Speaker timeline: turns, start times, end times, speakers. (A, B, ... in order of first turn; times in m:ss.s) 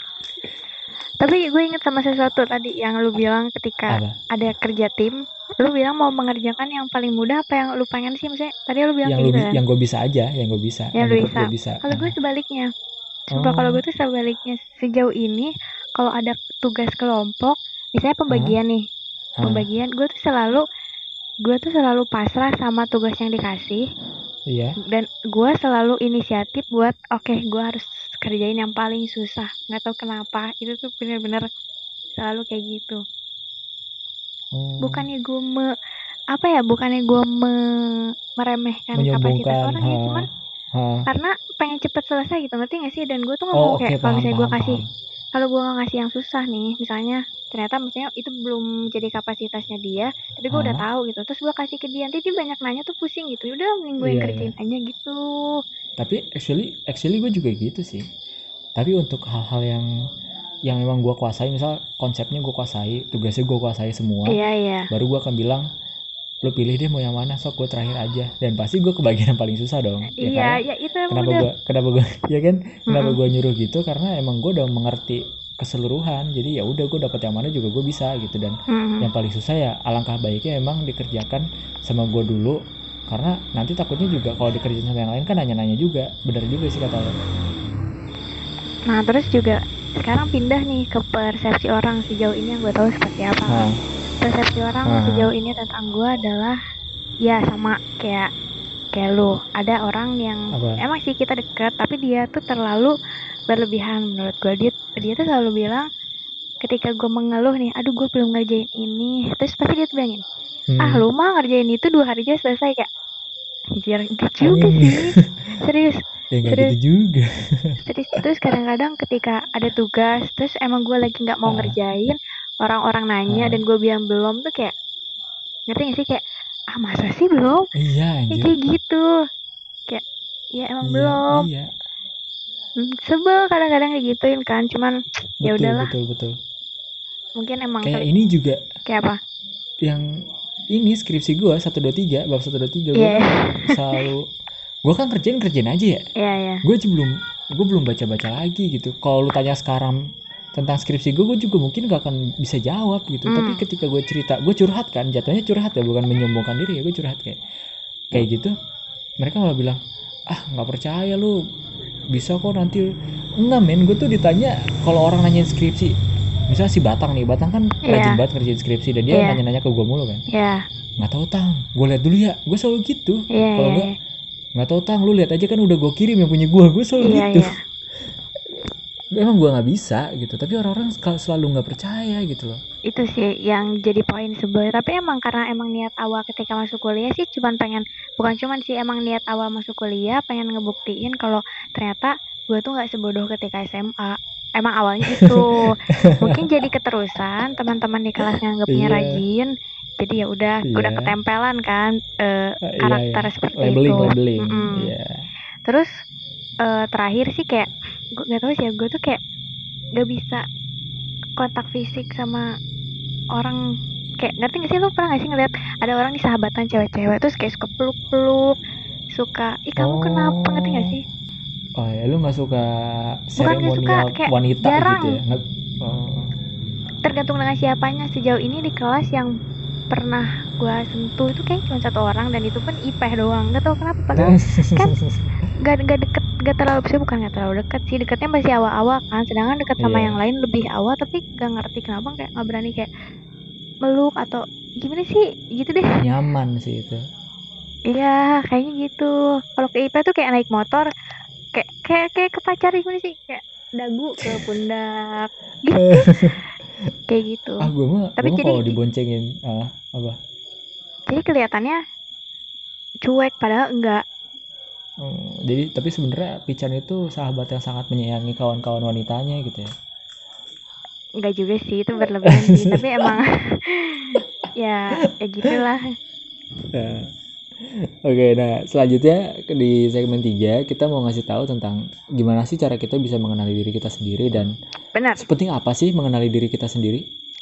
0:01.2-0:09.6 A
0:03.9-0:04.2 B
0:09.1-0:12.1 B
0:11.0-0:12.7 A
0:13.3-0:18.8 A
0:13.3-0:13.8 B
0:18.3-0:18.6 B
0:19.4-0:19.6 B
0:19.4-0:20.6 A
0:21.4-0:23.8 A
0:24.5-0:24.8 B
0:24.9-0:31.5 A
0:32.2-0:33.0 A
0:34.5-0:35.1 B
0:34.8-0:35.7 A
0:36.3-0:40.3 A
0:39.0-0:40.2 B
0:40.8-0:41.1 B
0:41.1-0:44.8 A
0:43.5-0:44.9 B
0:45.3-0:55.6 A
0:50.5-0:50.8 B
0:54.0-0:54.5 B
0:56.0-0:58.1 B
0:58.8-0:59.9 B
1:00.7-1:04.4 B
1:04.3-1:04.9 A
1:04.9-1:05.7 B
1:06.4-1:27.1 B
1:10.2-1:11.5 A
1:12.9-1:13.2 A
1:18.7-1:19.1 A
1:28.9-1:33.6 A
1:33.5-1:33.8 B
1:34.2-1:36.6 A
1:34.9-1:35.3 B
1:37.2-1:38.3 A
1:38.9-1:42.9 A
1:40.5-1:40.8 B
1:43.5-1:45.9 A
1:46.6-1:50.2 A
1:50.7-1:51.0 B
1:50.8-1:52.9 A
1:53.8-1:56.7 A
1:54.4-1:55.5 B
1:56.3-1:57.8 B
1:57.8-2:04.7 A
2:01.5-2:01.8 B
2:03.3-2:03.6 B
2:05.7-2:06.2 A
2:06.7-2:07.7 A
2:07.8-2:08.5 B
2:08.3-2:09.1 A
2:10.6-2:11.3 A
2:10.8-2:11.7 B
2:12.8-2:15.9 A
2:15.4-2:16.4 B
2:17.4-2:18.0 A
2:17.8-2:18.6 B
2:18.9-2:19.2 A
2:20.7-2:24.2 B
2:23.0-2:23.7 A
2:24.9-2:26.0 B
2:26.2-2:26.6 A
2:26.6-2:30.0 B
2:30.6-2:37.4 B
2:33.3-2:33.6 A
2:38.1-2:38.5 B
2:39.2-2:39.8 B
2:40.3-2:41.4 B
2:42.1-2:42.9 B
2:43.4-2:46.0 B
2:46.5-2:50.3 B
2:47.9-2:48.2 A
2:49.1-2:49.4 A
2:50.3-2:50.6 A
2:51.0-2:53.9 B
2:53.3-2:53.9 A
2:54.6-2:57.5 B
2:57.0-2:57.5 A
2:59.2-3:02.6 B
3:02.9-3:24.9 A
3:15.1-3:16.4 B
3:18.3-3:19.2 B
3:20.7-3:21.1 B
3:22.7-3:25.3 B
3:26.6-3:29.2 A
3:30.0-3:30.4 A
3:31.4-3:32.4 A
3:34.2-3:38.5 A
3:39.2-3:41.0 A
3:39.8-3:40.9 B
3:41.8-3:46.3 B
3:43.4-3:45.2 A
3:47.0-3:49.3 A
3:49.9-3:54.9 A
3:54.2-3:55.3 B
3:55.6-4:02.9 A
3:59.8-4:00.2 B
4:03.8-4:06.0 A
4:06.0-4:07.0 B
4:07.9-4:10.9 A
4:11.5-4:16.3 A
4:15.8-4:16.4 B
4:17.1-4:17.6 A
4:17.6-4:20.2 B
4:18.2-4:18.8 A
4:21.1-4:21.8 A
4:23.0-4:24.0 A
4:25.0-4:29.7 B
4:31.2-4:35.9 A
4:32.2-4:33.1 B
4:36.7-4:37.1 B
4:37.6-4:44.5 B
4:45.0-4:45.2 A
4:45.2-4:47.0 B